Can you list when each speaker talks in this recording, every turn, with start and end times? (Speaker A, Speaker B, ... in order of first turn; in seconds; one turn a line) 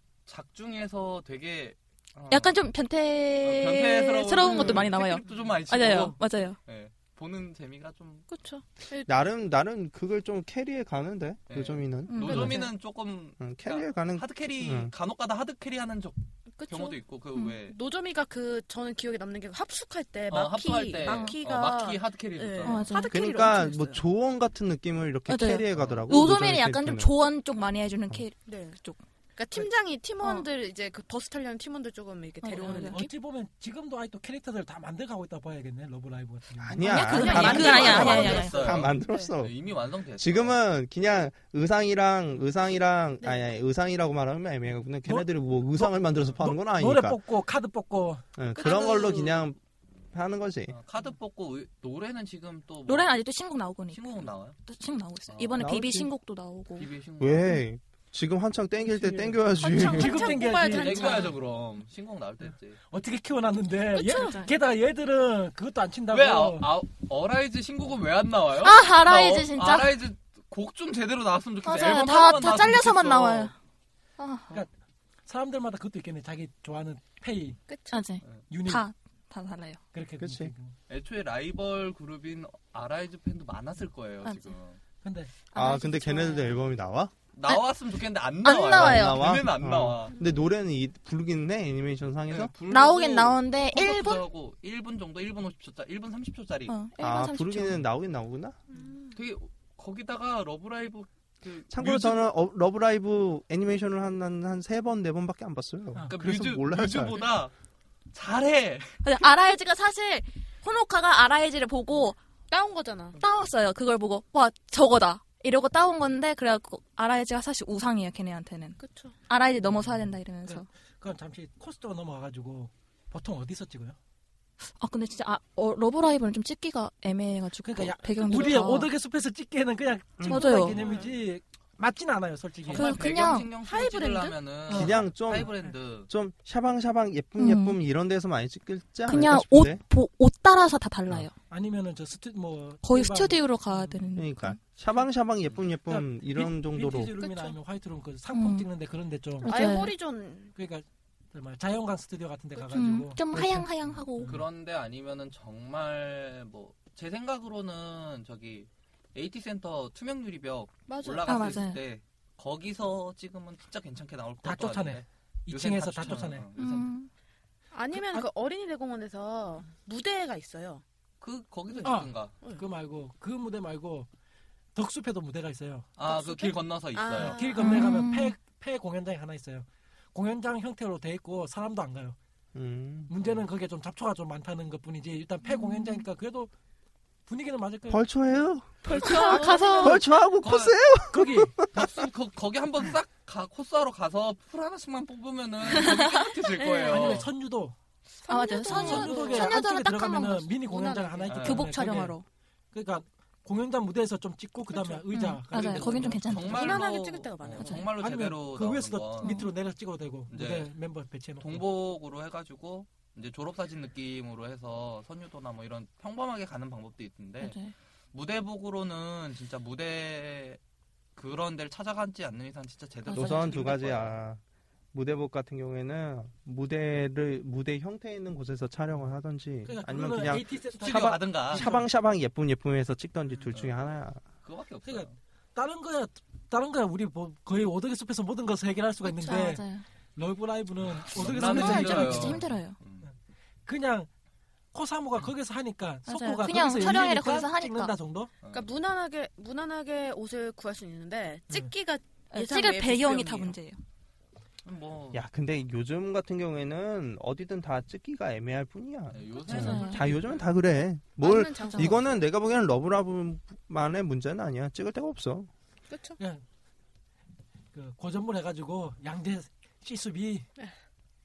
Speaker A: 0.3-2.5
Speaker B: 2.3-6.6
Speaker A: 3.4-8.2
Speaker C: 4.5-4.8
Speaker C: 8.3-9.1
Speaker D: 9.1-12.5
Speaker A: 11.5-17.8
Speaker B: 12.1-12.7
Speaker C: 12.2-12.7
Speaker D: 13.4-14.9
Speaker C: 16.6-17.0
Speaker C: 17.7-24.0
Speaker A: 20.3-22.9
Speaker B: 21.0-21.4
Speaker B: 22.6-23.3
Speaker D: 23.1-27.1
Speaker B: 25.3-29.0
Speaker A: 25.7-26.0
Speaker C: 28.5-28.8
Speaker C: 29.4-33.0
Speaker B: 32.4-33.1
Speaker E: 32.7-37.0
Speaker D: 36.6-39.5
Speaker C: 36.8-39.3
Speaker B: 36.9-38.7
Speaker A: 37.3-40.5
Speaker D: 40.1-47.2
Speaker E: 45.0-48.2
Speaker D: 48.4-49.6
Speaker C: 48.5-49.4
Speaker D: 50.1-50.8
Speaker A: 50.7-53.1
Speaker B: 52.9-56.9
Speaker A: 53.9-54.6
Speaker A: 55.3-55.7
Speaker D: 55.6-56.1
Speaker A: 56.8-57.6
Speaker D: 57.2-60.2
Speaker E: 58.9-61.3
Speaker C: 59.6-61.4
Speaker A: 60.2-62.8
Speaker E: 62.9-66.7
Speaker B: 64.0-64.5
Speaker A: 66.1-73.5
Speaker B: 68.6-69.9
Speaker B: 71.6-73.5
Speaker B: 74.2-74.6
Speaker E: 75.2-77.6
Speaker C: 77.7-78.0
Speaker B: 77.9-79.8
Speaker E: 78.5-78.8
Speaker E: 79.9-80.7
Speaker D: 80.2-80.5
Speaker A: 80.9-84.8
Speaker B: 84.2-84.5
Speaker E: 85.0-85.3
Speaker B: 85.5-86.6
Speaker D: 85.5-87.1
Speaker A: 87.3-90.1
Speaker B: 88.4-89.3
Speaker D: 88.5-92.5
Speaker A: 92.3-96.7
Speaker B: 92.7-94.2
Speaker B: 96.7-97.8
Speaker D: 97.0-98.6
Speaker C: 98.7-99.1
Speaker A: 99.1-102.3
Speaker D: 101.7-107.3
Speaker A: 106.1-107.5
Speaker A: 108.1-109.0
Speaker B: 109.0-112.2
Speaker C: 112.5-113.2
Speaker B: 113.2-120.7
Speaker C: 118.8-119.1
Speaker E: 120.4-124.0
Speaker B: 124.8-128.9
Speaker E: 127.6-132.9
Speaker B: 130.2-130.8
Speaker C: 130.7-131.1
Speaker A: 132.7-136.1
Speaker B: 132.7-133.5
Speaker C: 132.8-134.4
Speaker E: 134.7-135.1
Speaker D: 134.7-139.8
Speaker B: 137.4-137.8
Speaker B: 139.1-141.3
Speaker E: 141.5-144.1
Speaker B: 142.8-144.6
Speaker D: 144.2-147.1
Speaker E: 145.9-149.5
Speaker B: 147.2-147.5
Speaker B: 148.3-148.7
Speaker B: 149.4-149.9
Speaker C: 149.4-150.5
Speaker E: 150.5-154.4
Speaker B: 152.7-154.3
Speaker A: 154.2-166.9
Speaker C: 160.9-161.4
Speaker B: 161.2-161.8
Speaker E: 164.4-166.4
Speaker B: 166.6-167.1
Speaker C: 167.7-170.8
Speaker A: 171.2-172.3
Speaker E: 171.8-174.1
Speaker E: 174.7-175.9
Speaker A: 176.0-177.4
Speaker C: 176.0-177.8
Speaker E: 177.2-182.2
Speaker B: 177.6-178.3
Speaker D: 182.5-183.1
Speaker E: 183.1-186.5
Speaker B: 185.5-186.0
Speaker E: 187.3-188.0
Speaker D: 187.9-188.7
Speaker C: 188.8-190.0
Speaker B: 188.9-189.9
Speaker D: 189.8-192.1
Speaker A: 190.4-190.8
Speaker E: 191.1-191.5
Speaker A: 191.7-197.3
Speaker B: 195.7-196.3
Speaker C: 196.6-197.1
Speaker E: 196.9-197.8
Speaker B: 198.3-200.6
Speaker C: 198.3-199.6
Speaker E: 198.6-202.2
Speaker C: 200.6-201.4
Speaker A: 201.3-201.7
Speaker B: 201.4-202.2
Speaker E: 202.7-206.5
Speaker C: 204.7-205.0
Speaker B: 205.1-206.9
Speaker A: 206.3-209.4
Speaker C: 206.4-207.9
Speaker B: 207.6-207.9
Speaker E: 208.0-211.6
Speaker B: 209.2-209.5
Speaker A: 210.3-210.7
Speaker A: 211.4-217.6
Speaker B: 217.4-217.7
Speaker A: 218.1-220.6
Speaker A: 221.2-224.1
Speaker B: 223.1-223.7
Speaker D: 223.1-224.4
Speaker D: 224.9-234.2
Speaker E: 229.7-231.9
Speaker A: 230.8-231.7
Speaker A: 234.4-235.2
Speaker E: 234.8-242.5
Speaker B: 239.0-239.8
Speaker A: 241.0-243.1
Speaker B: 241.3-242.8
Speaker E: 243.7-244.1
Speaker E: 244.7-248.3
Speaker B: 246.1-247.9
Speaker A: 248.4-248.7
Speaker C: 248.5-253.6
Speaker B: 252.3-253.8
Speaker A: 254.6-255.2
Speaker D: 255.1-265.5
Speaker A: 259.1-260.5
Speaker B: 259.5-260.0
Speaker C: 261.2-262.2
Speaker C: 265.9-266.2
Speaker E: 267.7-270.4